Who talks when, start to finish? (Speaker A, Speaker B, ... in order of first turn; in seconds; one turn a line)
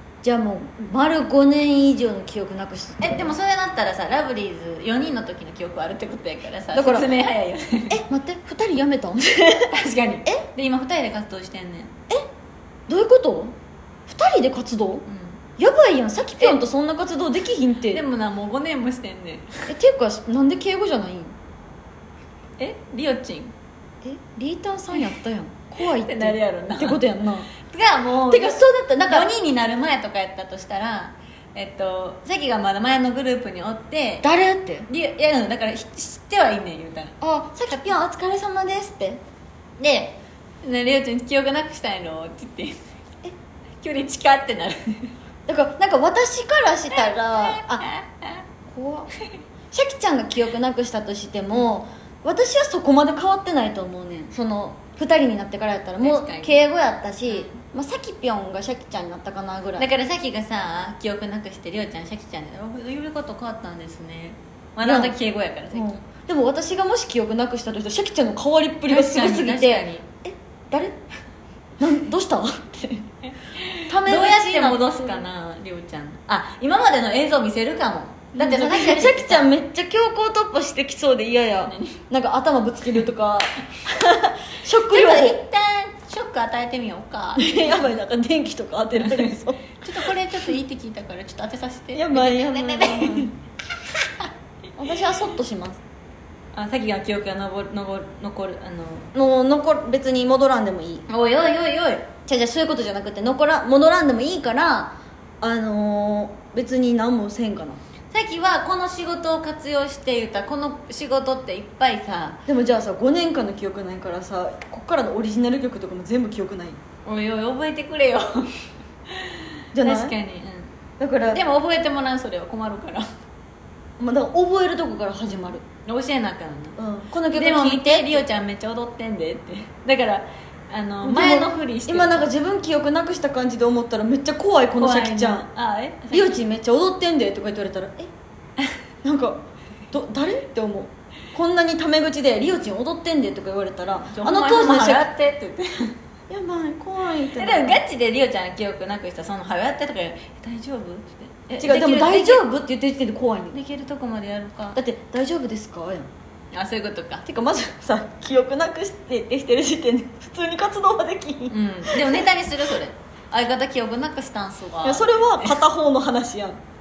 Speaker A: 0.2-3.4
Speaker B: 3.0-8.1
Speaker A: 6.7-7.1
Speaker A: 7.9-9.7
Speaker B: 9.7-11.9
Speaker A: 12.9-13.6
Speaker A: 14.1-15.1
Speaker B: 15.1-15.4
Speaker A: 15.6-18.0
Speaker B: 17.9-19.7
Speaker A: 19.7-21.3
Speaker B: 22.6-23.5
Speaker A: 24.0-27.5
Speaker B: 26.0-27.0
Speaker B: 27.6-34.3
Speaker A: 28.3-29.3
Speaker A: 34.2-34.9
Speaker B: 34.9-37.1
Speaker A: 37.2-39.2
Speaker B: 37.7-38.0
Speaker B: 39.8-42.8
Speaker B: 43.8-45.1
Speaker A: 45.5-47.9
Speaker B: 47.5-48.3
Speaker A: 48.7-49.1
Speaker A: 49.7-59.9
Speaker B: 56.0-56.6
Speaker B: 57.3-57.6
Speaker B: 59.8-66.0
Speaker A: 64.8-65.2
Speaker A: 65.7-71.0
Speaker B: 68.9-70.1
Speaker A: 71.8-73.0
Speaker B: 73.4-79.5
Speaker A: 73.9-75.2
Speaker A: 78.3-85.4
Speaker B: 81.7-82.0
Speaker B: 84.9-87.8
Speaker A: 87.4-90.4
Speaker B: 89.0-93.3
Speaker A: 91.9-93.3
Speaker A: 94.8-95.8
Speaker B: 96.5-99.1
Speaker A: 99.1-101.1
Speaker B: 101.1-102.1
Speaker A: 102.3-107.8
Speaker B: 108.1-112.4
Speaker A: 112.5-116.8
Speaker B: 117.0-118.5
Speaker B: 119.2-120.7
Speaker A: 119.7-120.2
Speaker A: 121.0-121.4
Speaker B: 121.3-123.1
Speaker A: 124.0-125.7
Speaker B: 125.9-126.8
Speaker A: 126.8-128.2
Speaker B: 127.3-132.3
Speaker A: 131.0-135.5
Speaker B: 134.8-136.4
Speaker A: 136.1-138.1
Speaker A: 139.0-145.1
Speaker B: 144.1-145.9
Speaker A: 146.3-147.8
Speaker B: 147.3-152.4
Speaker A: 151.6-153.6
Speaker B: 153.5-154.8
Speaker A: 154.7-156.1
Speaker B: 156.5-157.2
Speaker A: 157.2-162.2
Speaker B: 161.5-165.6
Speaker A: 164.8-166.6